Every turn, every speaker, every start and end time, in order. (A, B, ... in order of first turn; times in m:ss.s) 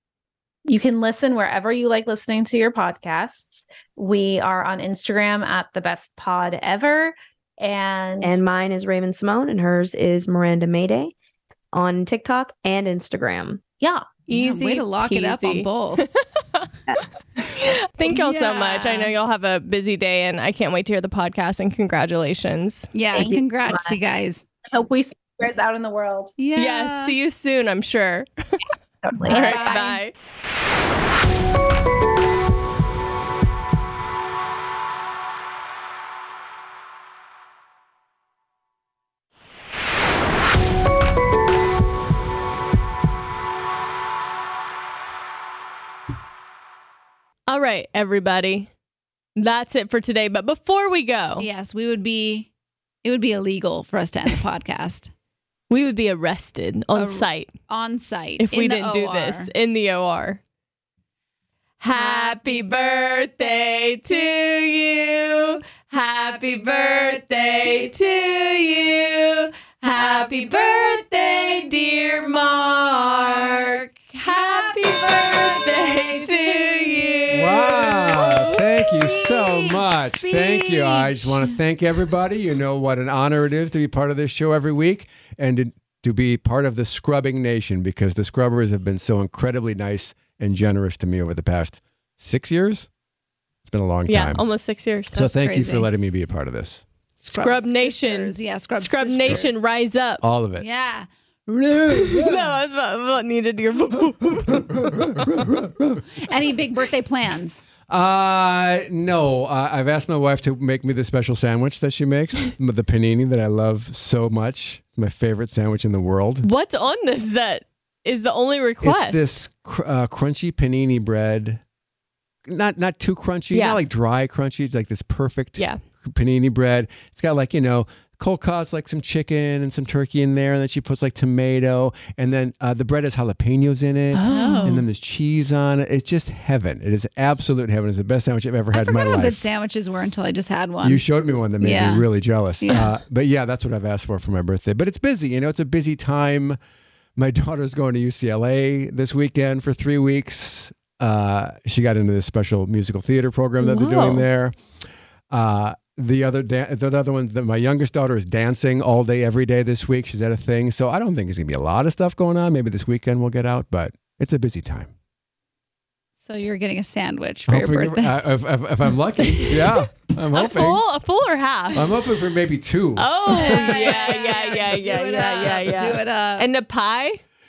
0:00.6-0:08.3 A
0:08.2-0:11.1 B
0:11.7-0:13.6 B
0:13.8-0:14.1 A
0:14.3-0:16.7 C
0:14.3-0:16.0 D
0:17.4-0:22.9 C
0:18.0-0:19.1 D
0:22.9-0:24.4 D
0:23.1-0:23.9 A
0:24.7-0:26.4 A
0:26.4-0:27.1 D
0:26.6-0:28.5 C
0:29.0-0:29.8 A
0:29.2-0:30.1 C
0:29.3-0:30.0 D
0:47.5-0:48.7 C
0:49.4-0:51.5 C
0:51.4-0:52.5 D
0:53.0-0:55.1 D
0:55.7-0:57.5 C
0:56.9-0:59.5 D
0:58.4-1:00.4 C
1:01.8-1:18.5 C
1:01.9-1:03.8 D
1:06.0-1:07.9 D
1:09.8-1:11.9 D
1:13.0-1:21.6 D
1:17.3-1:32.9 E
1:33.6-1:34.4 E
1:34.1-1:35.2 C
1:35.1-1:35.9 D
1:35.1-1:36.8 E
1:37.2-1:39.6 D
1:37.3-1:40.2 C
1:40.2-1:40.7 E
1:40.6-1:42.4 D
1:42.0-1:42.4 E
1:42.1-1:44.6 C
1:44.4-1:46.0 E
1:46.1-1:47.6 D
1:47.9-1:56.4 E
1:56.4-1:59.4 C
1:58.8-2:01.6 E
2:02.4-2:19.4 E
2:03.5-2:03.8 C
2:14.1-2:14.8 C
2:14.2-2:14.8 D
2:18.7-2:21.0 D
2:20.8-2:26.6 E
2:21.6-2:22.0 D
2:22.6-2:22.9 D
2:27.2-2:34.6 E
2:33.6-2:34.3 C
2:35.3-2:44.9 E
2:46.2-2:48.2 D
2:47.5-2:50.8 E
2:49.2-2:52.0 C
2:51.7-2:53.9 E
2:53.0-2:57.2 C
2:53.3-2:56.5 D